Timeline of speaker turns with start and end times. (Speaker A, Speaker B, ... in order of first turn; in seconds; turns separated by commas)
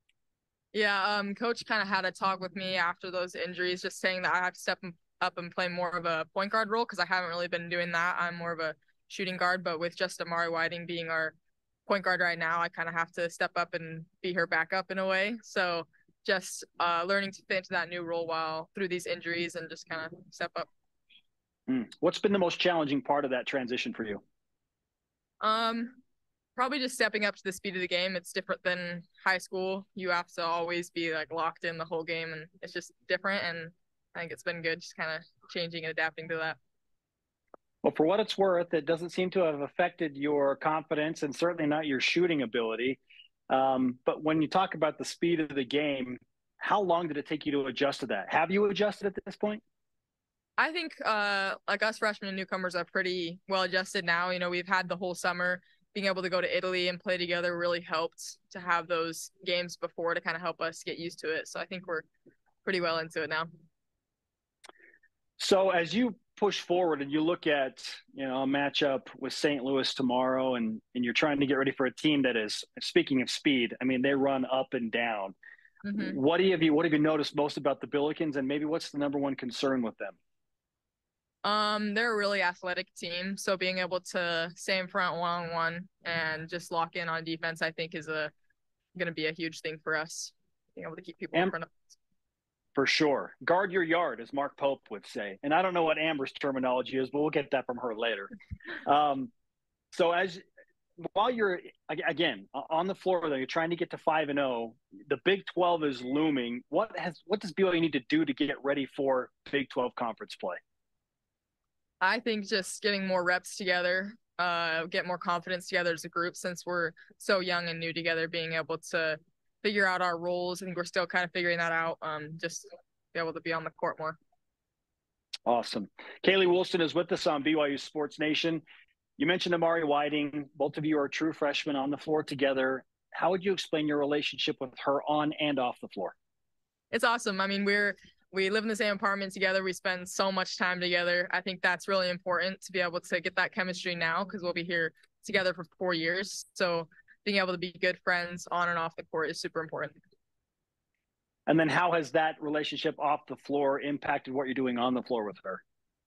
Speaker A: 0.7-20.7, Speaker B: 21.7-24.2, Speaker A: 25.4-26.0, Speaker A: 26.6-36.6, Speaker B: 37.8-43.0, Speaker B: 43.5-49.6, Speaker A: 50.6-62.1, Speaker A: 62.6-63.5, Speaker B: 65.4-75.3, Speaker A: 75.8-76.2, Speaker B: 76.0-80.2, Speaker A: 81.4-88.3, Speaker A: 89.0-92.0, Speaker B: 92.8-98.3, Speaker B: 98.9-99.3, Speaker B: 99.9-100.4, Speaker B: 101.0-110.6, Speaker A: 112.0-124.2, Speaker B: 125.5-128.6, Speaker B: 129.2-136.1, Speaker A: 136.9-150.0, Speaker B: 151.5-155.6